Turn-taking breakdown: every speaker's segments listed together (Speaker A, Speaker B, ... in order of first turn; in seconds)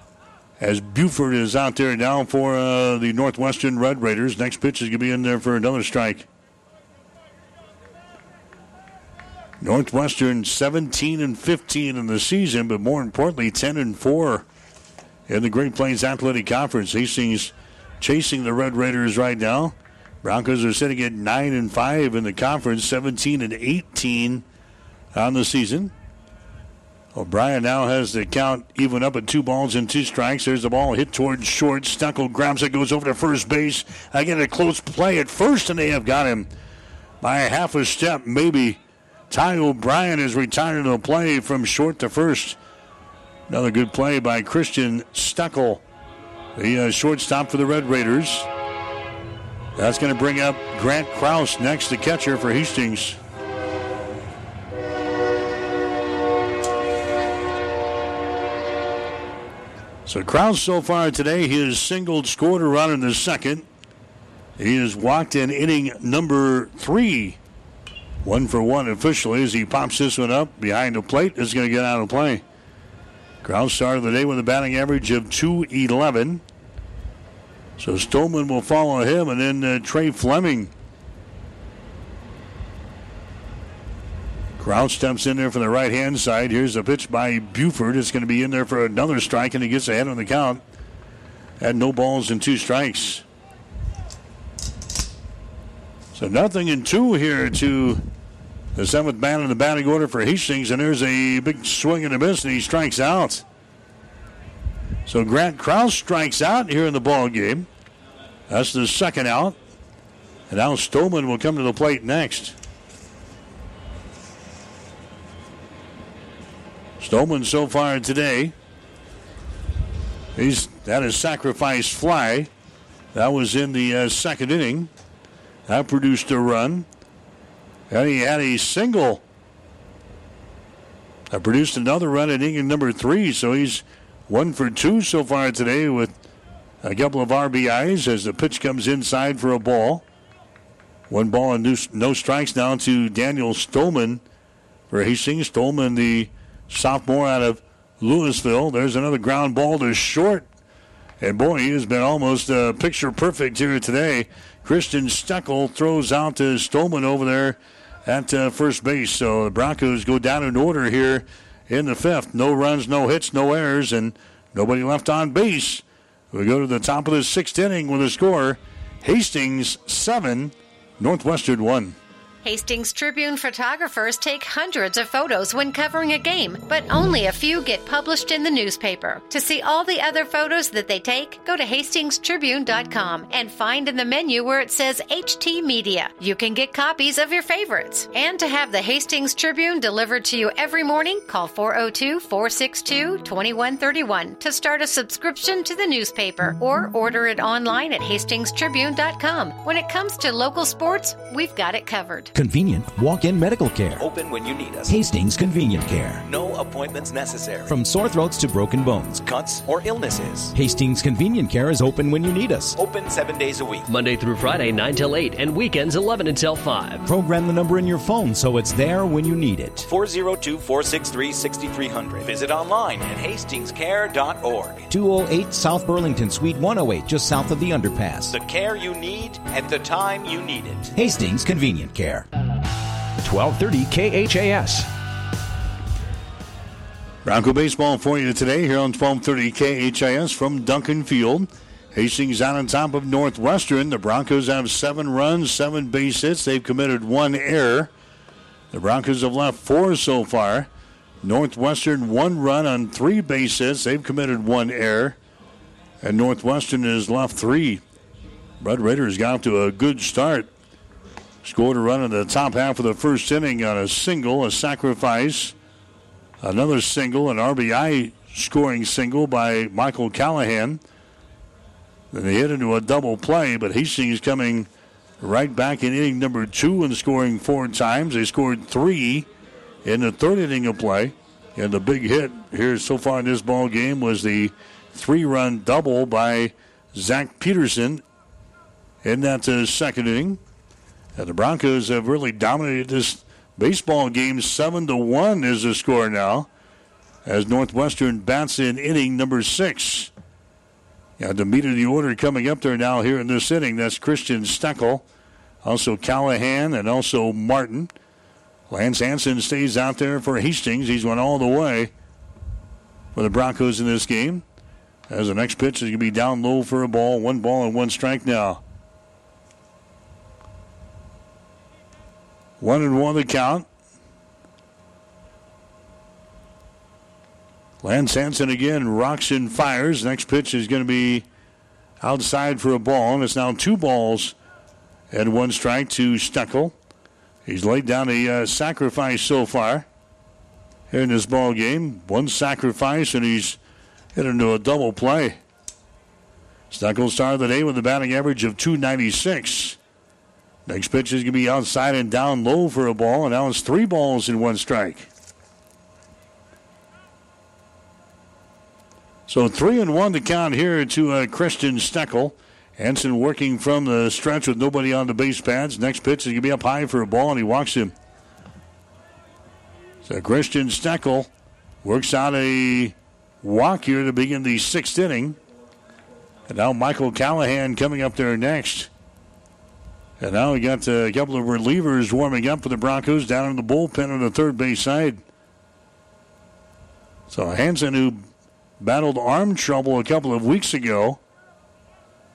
Speaker A: 0.6-6.3, 9.6-14.5, 15.3-24.4, 25.1-25.9, 27.1-36.5, 37.2-42.6, 43.5-45.8, 46.6-48.5, 49.8-53.2, 60.1-63.7, 64.6-67.4, 68.2-72.4, 73.4-76.4, 77.8-80.7, 84.6-90.6, 91.6-93.2, 96.2-98.0, 98.8-103.5, 105.1-107.7, 108.5-109.6, 110.5-112.6, 117.0-118.5, 120.4-122.5, 123.1-124.9, 125.7-126.9, 127.9-129.2, 131.3-136.2, 136.8-140.1, 141.1-144.2, 144.9-150.4, 151.2-172.0, 237.2-247.9, 248.7-250.7, 251.2-255.2, 256.0-257.8, 258.6-260.5, 261.4-265.6, 266.4-270.8, 272.1-274.7, 275.2-279.3, 279.9-288.0, 289.0-290.4, 291.2-296.5, 297.2-300.1, 301.2-305.1, 305.6-307.9, 308.7-311.9, 313.1-314.4, 315.1-318.6, 322.6-323.7, 327.8-331.2, 332.0-334.4, 335.1-336.8, 337.5-339.9, 340.9-343.6, 344.1-345.4, 346.7-349.8, 350.7-355.1, 359.3-367.9, 370.0-371.3, 371.8-375.4, 376.5-378.9, 380.2-385.2, 387.3-388.3, 388.8-391.2
Speaker B: 172.4-202.3
Speaker C: 202.3-204.1, 204.9-206.2, 207.7-209.2, 210.6-212.8, 217.1-219.9, 224.9-228.3, 230.9-232.3, 233.2-234.9
Speaker D: 204.0-205.0, 206.2-207.8, 209.2-210.5, 212.7-213.9, 219.8-224.9, 228.3-230.9
Speaker E: 213.9-217.1